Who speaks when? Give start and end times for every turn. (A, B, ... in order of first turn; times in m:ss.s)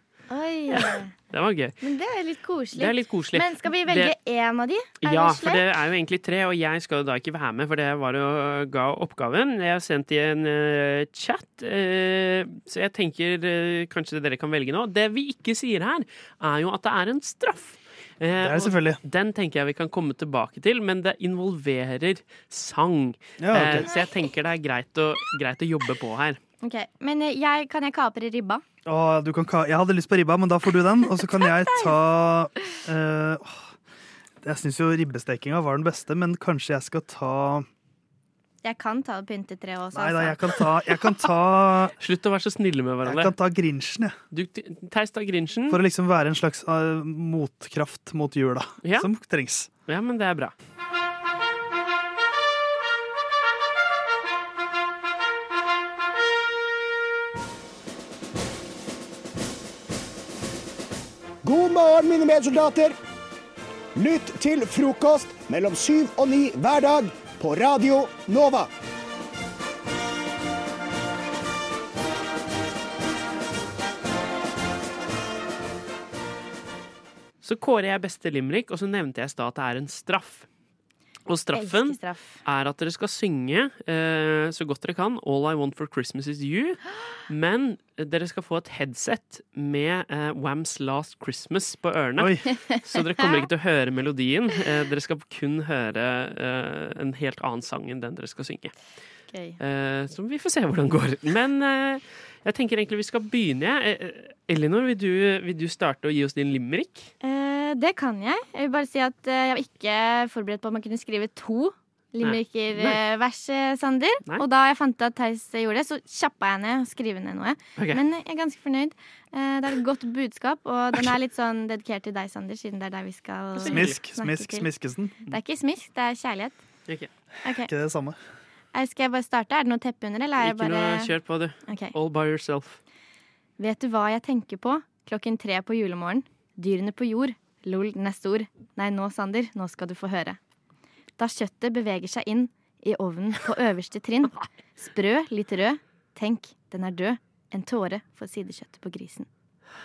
0:00.3-0:01.1 A
0:00.7-0:01.8 B
0:01.8-0:05.6 A
0:02.8-0:04.1 B
0:05.0-0:26.4 B
0:18.4-0:19.0 C
0:23.4-0:23.9 C
0:26.6-0:28.6 A
0:28.8-0:33.7 C
0:34.4-0:37.6 C
0:38.6-0:40.5 A
0:39.9-0:41.9 C
0:42.0-0:43.3 B
0:43.0-0:44.1 C
0:44.3-0:45.8 B
0:45.7-0:49.7 C
0:48.8-0:49.1 B
0:49.8-0:50.5 B
1:01.4-1:02.9 D
1:04.0-1:08.7 D
1:17.4-1:20.5 B
1:21.3-1:38.7 B
1:21.5-1:22.4 A
1:32.2-1:32.4 C
1:32.5-1:33.4 A
1:39.3-1:39.6 A
1:39.6-1:47.1 B
1:47.2-2:04.7 A
1:52.2-1:53.0 B
1:57.8-1:58.0 B
2:03.6-2:04.0 B
2:03.6-2:05.2 C
2:05.3-2:06.6 A
2:07.4-2:07.7 A
2:07.6-2:08.2 C
2:08.7-2:11.1 A
2:10.4-2:12.8 B
2:11.7-2:11.9 A
2:13.6-2:20.4 A
2:21.2-2:29.3 A